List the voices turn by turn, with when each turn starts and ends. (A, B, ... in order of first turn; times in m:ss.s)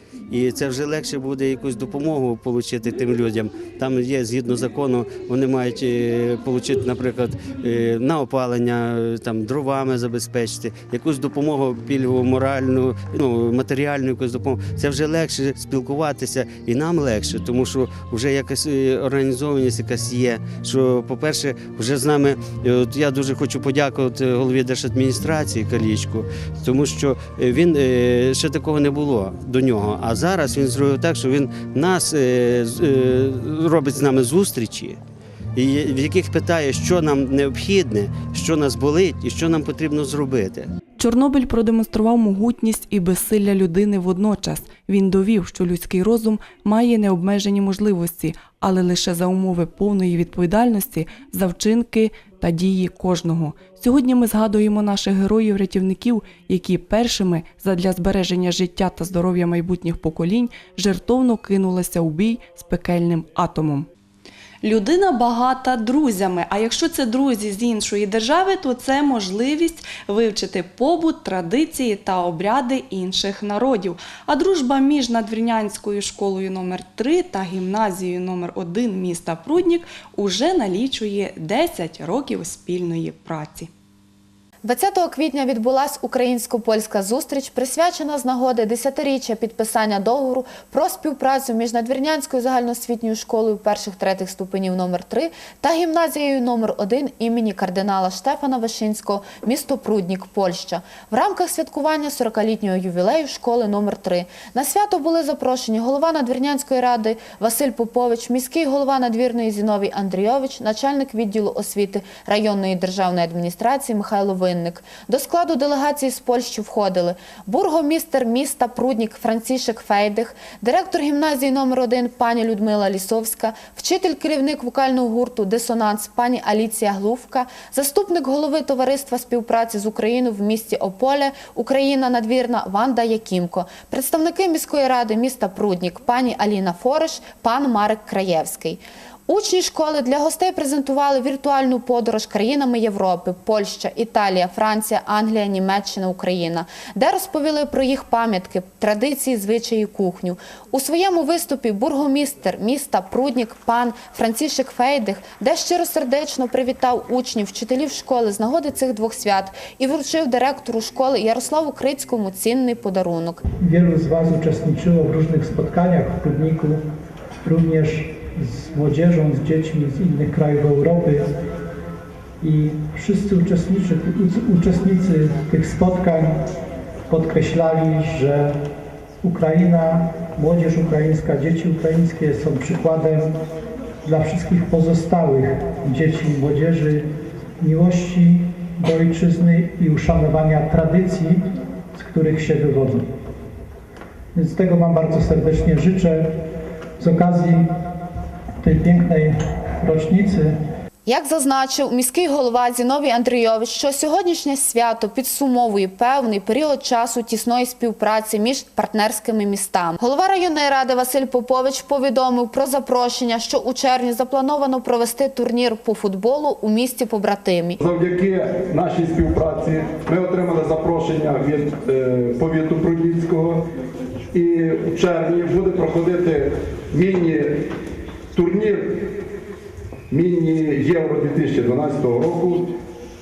0:00.3-0:35.0 A
0:35.6-0:40.7 A
0:41.0-1:03.9 B
1:04.6-1:23.7 B
1:24.6-2:43.4 C
2:43.7-2:46.7 D
2:43.7-2:46.7 E
2:47.5-2:48.1 D
2:47.5-2:51.2 E
2:48.7-2:51.2 D
2:52.4-2:56.3 D
2:52.4-2:56.3 E
2:57.1-2:58.5 D
2:57.1-2:58.3 E
2:59.2-3:03.2 E
2:59.2-3:03.3 D
3:04.1-3:07.0 D
3:04.1-3:07.0 E
3:07.6-3:11.3 D
3:07.6-3:08.3 E
3:08.8-3:11.2 E
3:12.0-3:13.0 E
3:12.0-3:13.0 D
3:14.4-3:16.1 D
3:14.4-3:16.3 E
3:17.0-3:17.5 D
3:17.0-3:17.6 E
3:18.6-3:19.3 E
3:18.8-3:19.3 D
3:19.8-3:20.4 E
3:19.9-3:20.3 D
3:21.1-3:37.8 C
3:37.8-3:43.6 E
3:44.3-3:47.6 E
3:48.3-3:49.1 E
3:50.1-3:52.7 E